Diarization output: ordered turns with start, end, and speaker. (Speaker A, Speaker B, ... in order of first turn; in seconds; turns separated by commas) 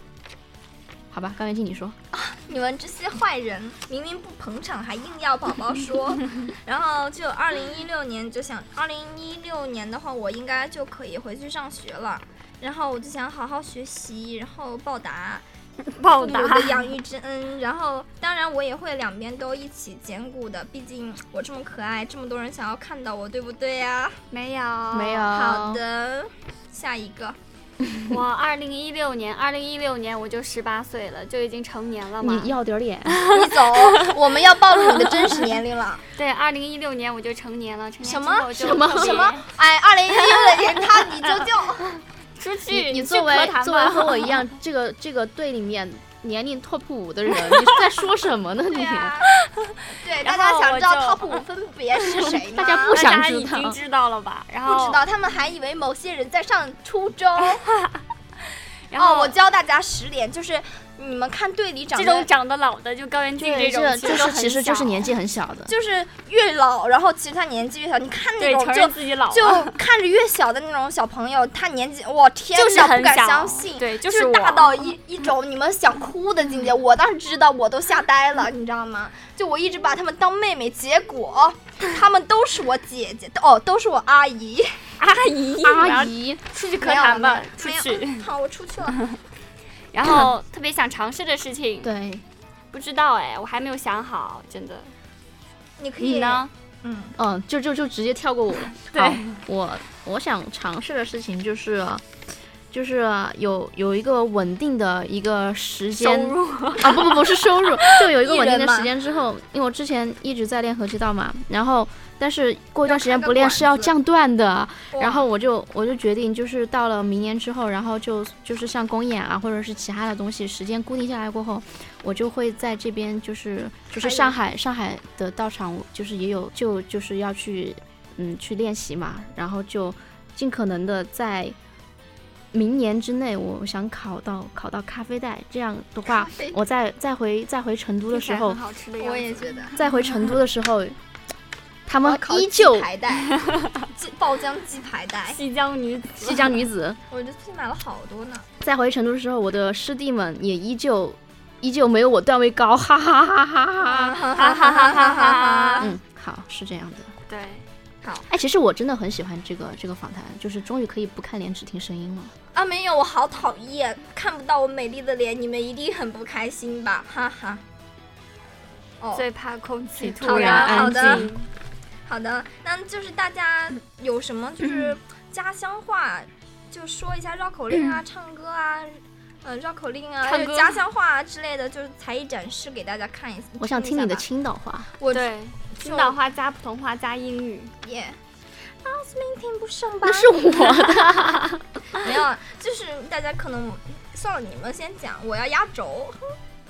Speaker A: 1.1-2.0, Speaker B: 2.1-15.4, Speaker C: 15.8-16.9, Speaker B: 16.2-24.2, Speaker C: 24.3-25.3, Speaker A: 24.9-25.8, Speaker B: 25.3-27.4, Speaker C: 28.0-32.5, Speaker A: 32.2-33.3, Speaker C: 33.1-34.1, Speaker B: 33.3-36.0, Speaker C: 36.1-39.5, Speaker B: 38.0-41.9, Speaker A: 38.5-39.3, Speaker C: 40.3-41.3, Speaker C: 42.4-44.4, Speaker A: 42.7-49.2, Speaker C: 47.4-47.9, Speaker B: 48.7-49.3, Speaker C: 49.4-51.4, Speaker B: 50.0-53.0, Speaker A: 52.5-53.8, Speaker C: 52.9-55.0, Speaker B: 54.6-57.6, Speaker C: 57.7-58.0, Speaker C: 58.9-59.3, Speaker B: 58.9-62.3, Speaker C: 61.9-65.1, Speaker A: 63.4-65.7, Speaker B: 65.7-84.9, Speaker C: 68.4-69.8, Speaker C: 72.5-74.9, Speaker C: 85.0-88.3, Speaker A: 85.6-86.4, Speaker B: 86.8-89.0, Speaker C: 89.9-91.9, Speaker A: 91.8-92.2, Speaker C: 92.7-94.9, Speaker B: 95.8-97.2, Speaker C: 96.0-96.5, Speaker A: 97.2-102.0, Speaker C: 98.8-99.3, Speaker A: 102.7-131.6, Speaker C: 106.0-107.2, Speaker B: 108.0-108.9, Speaker B: 112.8-113.9, Speaker B: 114.9-115.2, Speaker B: 123.9-124.4, Speaker A: 132.5-138.6, Speaker B: 136.1-136.6, Speaker C: 138.1-139.9, Speaker B: 139.0-139.8, Speaker A: 139.8-141.0, Speaker A: 141.9-142.9, Speaker B: 142.0-143.4, Speaker C: 143.4-143.8, Speaker B: 143.9-145.4, Speaker C: 145.3-146.6, Speaker A: 146.2-147.0, Speaker B: 147.1-148.5, Speaker A: 148.6-154.2, Speaker B: 153.8-155.9, Speaker C: 154.3-155.9, Speaker A: 155.8-157.1, Speaker C: 157.3-157.7, Speaker A: 158.3-162.3, Speaker B: 162.5-167.6, Speaker B: 169.0-169.2, Speaker C: 169.1-171.5, Speaker A: 170.0-171.3, Speaker B: 170.2-171.3, Speaker B: 172.1-184.2, Speaker C: 180.2-180.8, Speaker A: 183.6-184.9, Speaker B: 185.0-186.2, Speaker C: 185.1-187.7, Speaker B: 187.8-188.2, Speaker B: 188.8-190.8, Speaker A: 190.0-191.6, Speaker B: 191.9-196.2